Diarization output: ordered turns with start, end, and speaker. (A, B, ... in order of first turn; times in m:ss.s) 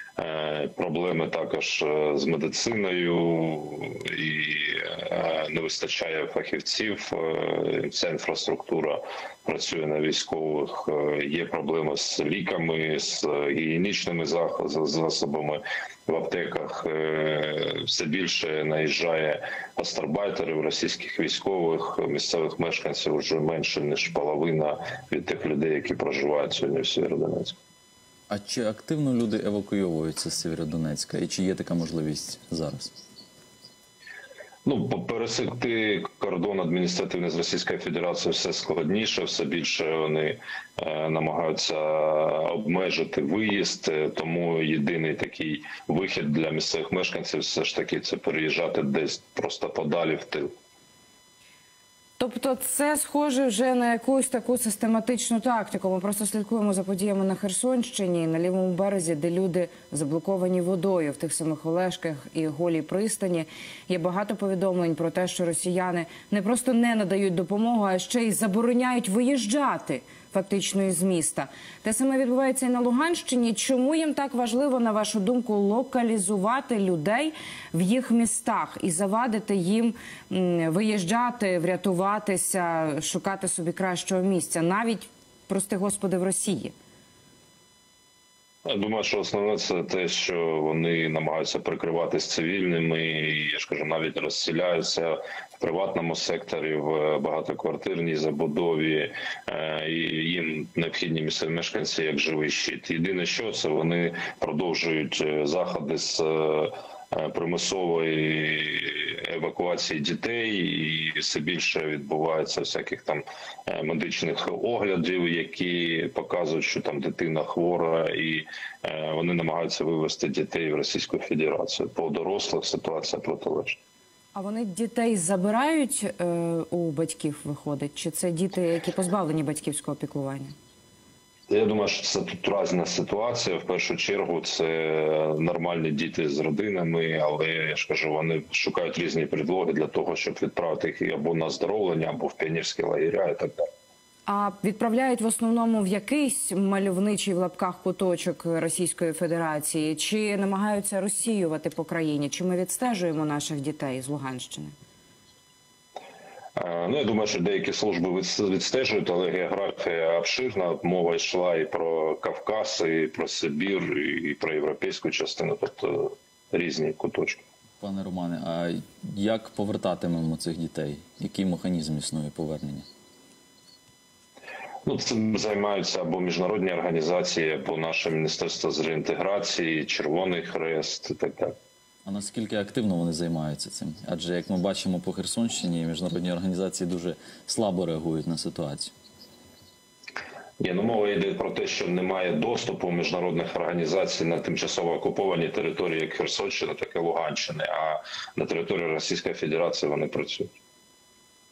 0:00.2-0:27.6 A
0:28.3-0:32.9 B
0:34.6-0:50.5 A
0:52.2-1:26.7 C
1:28.6-2:03.8 A
2:04.3-2:10.5 C
2:11.5-2:23.6 A
2:24.3-2:34.7 C
2:36.6-2:47.4 A
2:47.8-2:52.8 B
2:54.8-3:01.5 A
3:02.0-3:08.9 B
3:10.6-3:20.5 A